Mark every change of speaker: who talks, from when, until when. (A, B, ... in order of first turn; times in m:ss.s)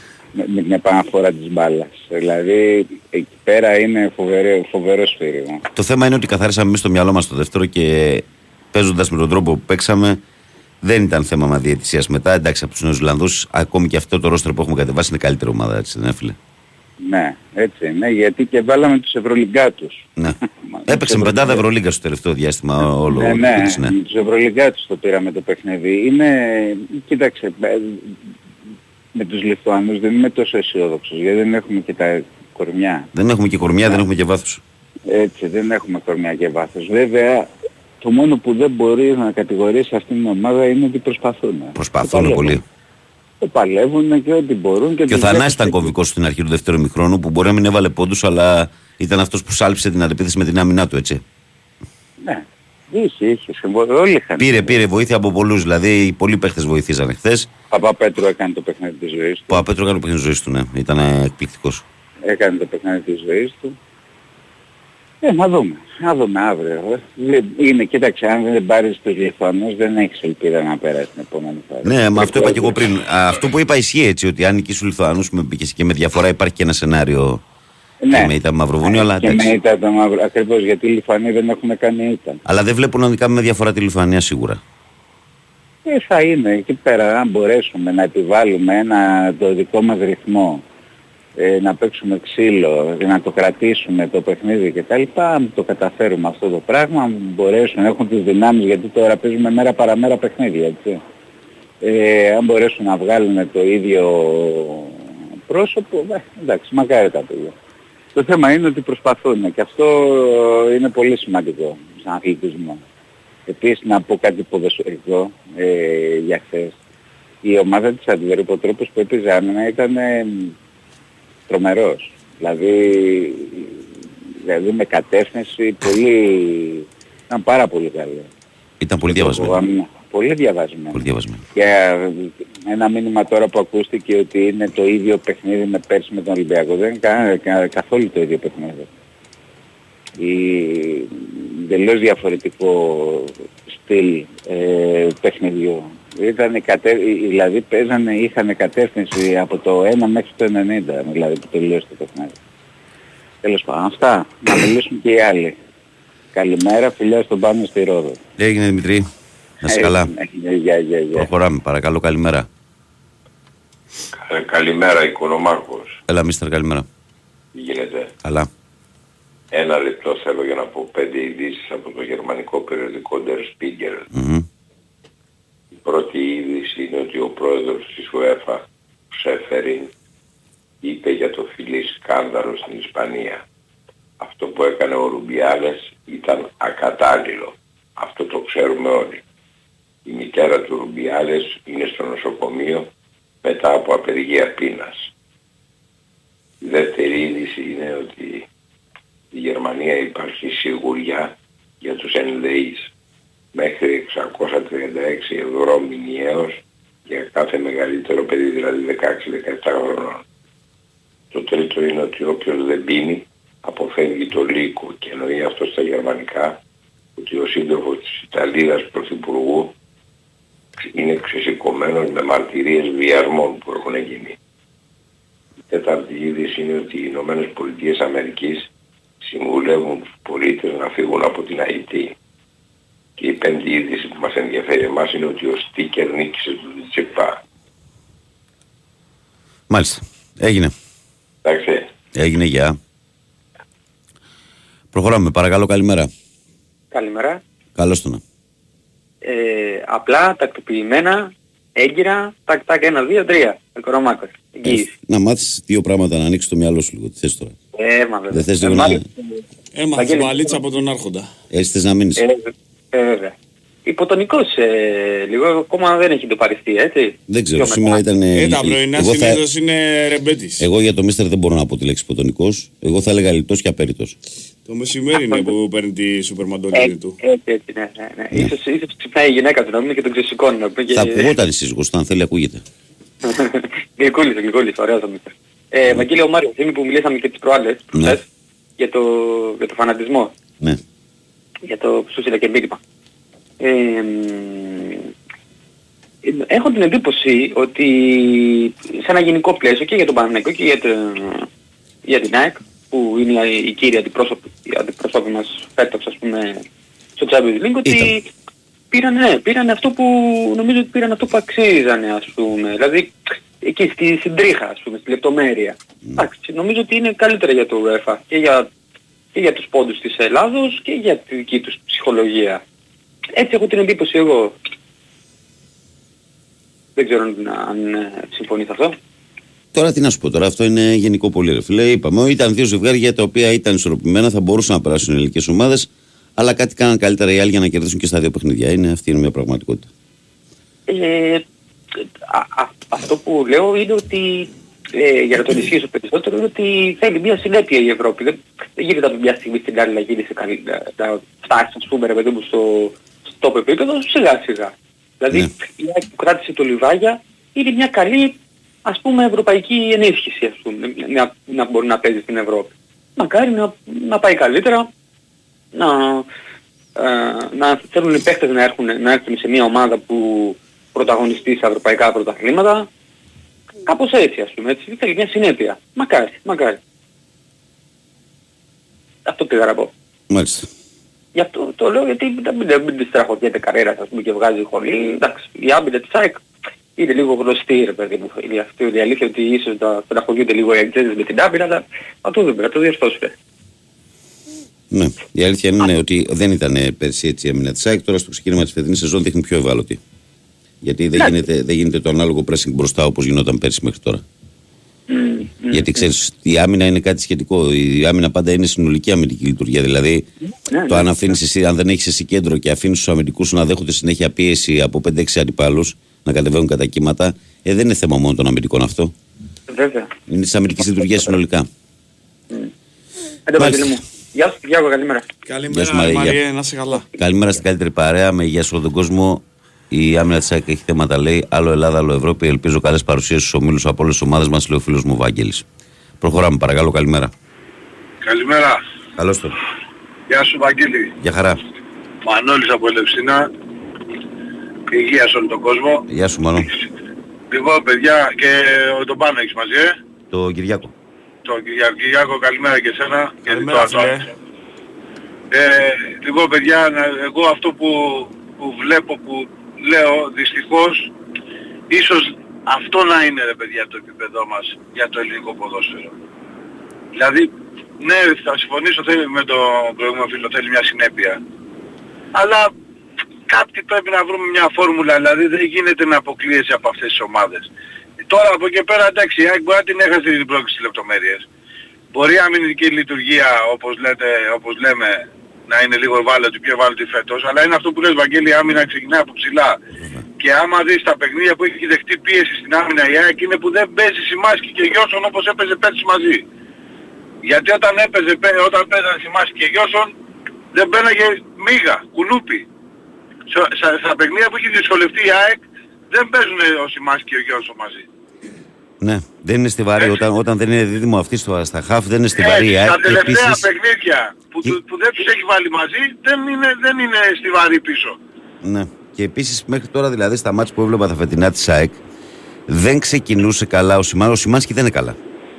0:00.3-0:05.6 A
0:05.7-0:10.2 B
0:10.8-0:16.4 B
0:17.0-0:21.6 A
0:20.2-0:23.9 B
0:23.0-0:28.1 A
0:29.1-0:33.1 A
0:33.1-0:34.6 B
0:35.1-0:37.5 A
0:38.0-0:42.6 A
0:41.8-0:42.6 B
0:43.4-0:45.9 A
0:45.1-0:51.2 B
0:52.2-0:54.8 A
0:54.4-0:57.5 B
0:57.7-0:59.6 A
0:59.5-1:01.8 B
1:02.2-1:03.7 A
1:05.2-1:12.7 A
1:11.8-1:17.4 B
1:18.0-1:18.3 A
1:18.1-1:19.5 B
1:18.8-1:22.4 A
1:22.4-1:24.6 B
1:25.8-1:30.6 A
1:31.4-1:41.0 A
1:41.8-1:47.5 A
1:48.1-1:52.8 A
1:53.5-1:56.7 A
1:57.4-2:00.5 A
2:01.5-2:03.9 A
2:04.4-2:08.3 A
2:08.8-2:09.6 B
2:09.1-2:11.0 A
2:10.9-2:11.4 B
2:11.5-2:18.9 A
2:20.2-2:32.3 A
2:33.4-2:35.6 A
2:36.3-2:38.2 A
2:38.4-2:39.1 B
2:39.6-2:40.1 B
2:39.7-2:41.3 A
2:41.1-2:42.5 B
2:44.2-2:45.9 C
2:46.1-2:46.9 B
2:47.5-2:48.1 C
2:48.2-2:48.5 B
2:49.5-2:54.0 C
2:54.1-2:54.5 B
2:55.8-2:59.9 C
3:00.8-3:03.4 C
3:04.2-3:09.2 C
3:10.0-3:12.9 C
3:13.4-3:15.0 C
3:16.6-3:18.4 C
3:19.3-3:22.8 C
3:23.5-3:30.2 C
3:31.3-3:36.6 C
3:37.2-3:39.7 C
3:40.8-3:44.4 C
3:45.7-3:48.7 C
3:49.2-3:52.1 C
3:53.2-3:57.4 C
3:59.7-4:00.7 B
4:01.4-4:01.8 C
4:02.1-4:02.8 B
4:04.9-4:06.1 B
4:06.9-4:07.4 D
4:07.8-4:08.2 B
4:09.2-4:14.9 D
4:14.6-4:17.6 B
4:17.7-4:19.3 D
4:18.3-4:19.0 B
4:19.7-4:21.3 E
4:19.9-4:20.6 D
4:21.5-4:22.2 B
4:22.2-4:28.0 D
4:27.3-4:29.4 B
4:28.3-4:30.6 E
4:30.6-4:34.2 B
4:34.6-4:37.2 E
4:36.7-4:41.3 D
4:40.9-4:42.6 B
4:43.2-4:48.2 D
4:48.8-4:50.3 D
4:51.6-4:52.8 D
4:53.6-4:55.1 D
4:56.2-5:01.5 D
5:02.0-5:06.6 D
5:07.2-5:08.3 D
5:07.8-5:08.1 B
5:08.9-5:18.7 D
5:19.3-5:22.6 D
5:23.3-5:24.6 D
5:27.0-5:29.0 D
5:29.7-5:39.9 B
5:40.9-5:41.4 D
5:42.3-6:04.9 D
6:05.7-6:06.3 D
6:07.0-6:12.9 D
6:13.8-6:16.8 D
6:19.2-6:19.9 D
6:20.3-6:20.7 B
6:21.3-6:26.4 D
6:27.0-6:33.3 D
6:34.9-6:40.0 B
6:40.8-6:44.2 B
6:45.1-6:46.0 D
6:45.7-6:50.3 B
6:50.7-6:51.1 D
6:50.9-6:59.1 B
6:59.7-7:00.1 D
7:00.3-7:01.7 B
7:03.5-7:05.3 D
7:03.6-7:04.0 B
7:05.4-7:07.0 E
7:05.7-7:06.4 B
7:07.1-7:15.6 B
7:16.2-7:17.3 B
7:18.2-7:18.8 F
7:19.2-7:19.6 B
7:20.3-7:21.1 F
7:21.2-7:21.6 B
7:22.2-7:23.5 F
7:24.9-7:26.0 F
7:26.1-7:26.7 B
7:27.5-7:30.0 F
7:30.3-7:30.9 B
7:31.4-7:34.3 F
7:33.4-7:34.3 E
7:35.5-7:41.1 F
7:41.9-7:46.1 F
7:47.1-7:51.4 F
7:52.3-7:52.7 F
7:53.5-7:57.7 F
7:58.3-8:01.4 F
8:02.1-8:09.8 F
8:10.0-8:10.2 B
8:10.4-8:16.4 F
8:17.4-8:20.1 F
8:20.7-8:22.6 F
8:23.5-8:28.0 F
8:29.0-8:33.6 B
8:32.4-8:38.2 F
8:38.6-8:42.0 B
8:42.7-8:45.2 B